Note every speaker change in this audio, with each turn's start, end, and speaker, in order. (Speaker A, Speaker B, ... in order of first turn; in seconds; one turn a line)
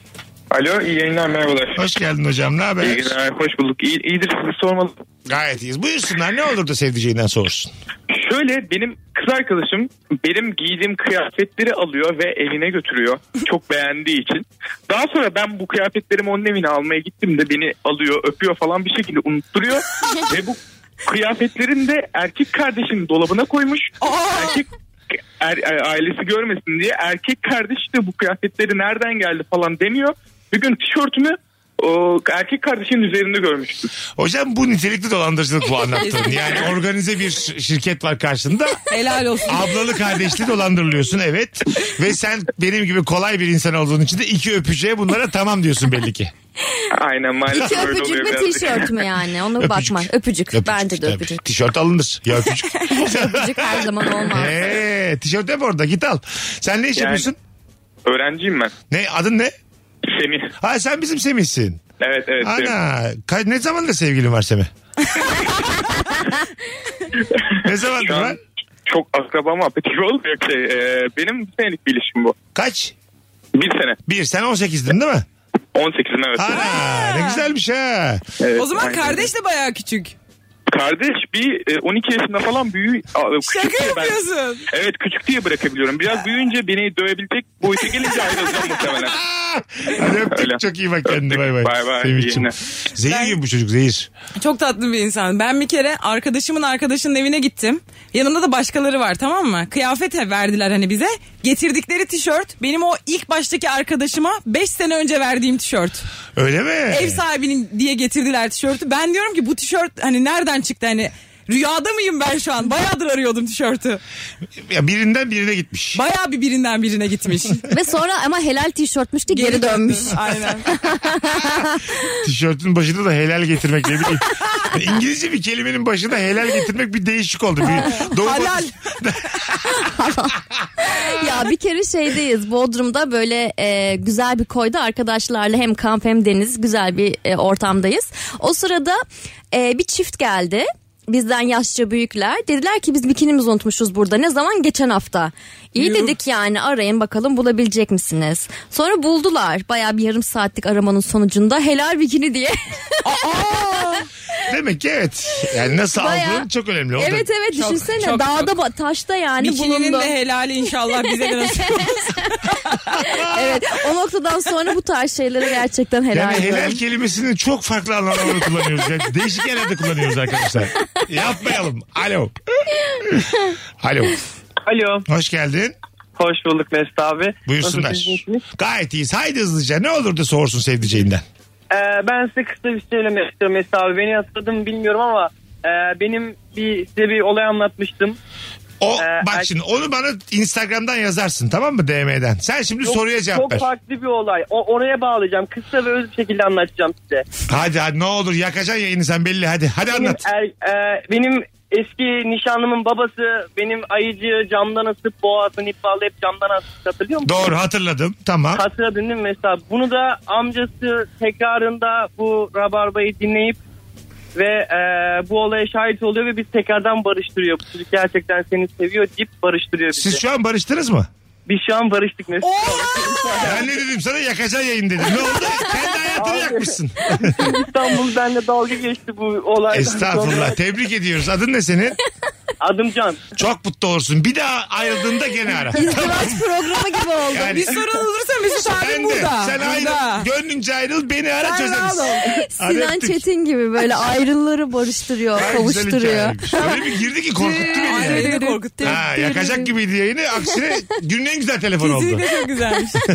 Speaker A: 0.5-1.8
Speaker B: 1.8-3.2
Speaker A: 2.8-5.0
Speaker B: 5.3-7.7
Speaker A: 8.1-24.7
Speaker C: 24.0-24.6
Speaker A: 25.4-33.8
Speaker B: 34.2-38.8
Speaker C: 36.0-36.6
Speaker C: 38.9-39.6
Speaker B: 39.5-46.3
Speaker A: 46.9-48.9
Speaker D: 47.5-51.4
Speaker B: 49.6-57.4
Speaker D: 52.9-54.7
Speaker A: 57.0-57.3
Speaker A: 58.0-58.7
Speaker B: 58.9-59.5
Speaker A: 60.0-60.5
Speaker B: 60.6-61.8
Speaker A: 62.0-62.7
Speaker B: 62.4-64.7
Speaker B: 67.6-68.4
Speaker A: 68.0-72.3
Speaker B: 72.5-72.9
Speaker A: 73.5-74.0
Speaker B: 74.0-75.2
Speaker A: 75.7-76.7
Speaker B: 76.4-78.2
Speaker C: 76.5-77.5
Speaker A: 78.4-79.3
Speaker C: 78.5-80.1
Speaker A: 80.7-84.2
Speaker C: 83.4-84.7
Speaker A: 84.7-89.2
Speaker B: 89.0-94.1
Speaker A: 90.3-92.5
Speaker C: 93.1-93.3
Speaker C: 94.4-106.0
Speaker B: 106.3-107.2
Speaker C: 106.9-114.0
Speaker B: 114.7-116.0
Speaker C: 115.9-117.6
Speaker D: 117.7-122.0
Speaker C: 119.3-120.7
Speaker B: 122.2-129.9
Speaker C: 127.7-128.7
Speaker D: 129.7-139.0
Speaker D: 139.5-152.6
Speaker C: 145.8-146.1
Speaker C: 153.0-154.1
Speaker B: 154.5-157.2
Speaker D: 155.9-160.1
Speaker C: 157.5-158.5
Speaker C: 159.4-162.8
Speaker D: 161.6-162.4
Speaker D: 163.0-166.8
Speaker B: 166.1-172.3
Speaker B: 173.0-173.3
Speaker B: 173.8-174.2
Speaker E: 174.6-175.1
Speaker B: 175.1-175.8
Speaker E: 176.2-178.4
Speaker B: 177.5-181.2
Speaker E: 181.7-188.2
Speaker B: 188.8-193.7
Speaker E: 188.9-189.5
Speaker E: 192.8-197.2
Speaker B: 197.5-200.2
Speaker E: 199.9-207.4
Speaker B: 207.2-208.6
Speaker E: 208.5-213.6
Speaker E: 214.3-220.2
Speaker B: 219.9-221.1
Speaker E: 221.4-223.7
Speaker C: 222.4-223.6
Speaker B: 223.4-227.5
Speaker E: 226.2-230.6
Speaker B: 229.7-232.0
Speaker E: 232.6-233.2
Speaker B: 233.4-236.4
Speaker D: 235.7-237.6
Speaker B: 237.3-237.8
Speaker C: 237.5-240.2
Speaker B: 238.6-243.2
Speaker C: 241.4-242.2
Speaker D: 242.2-246.7
Speaker B: 245.3-252.3
Speaker C: 247.3-249.0
Speaker D: 247.7-249.7
Speaker C: 251.8-253.0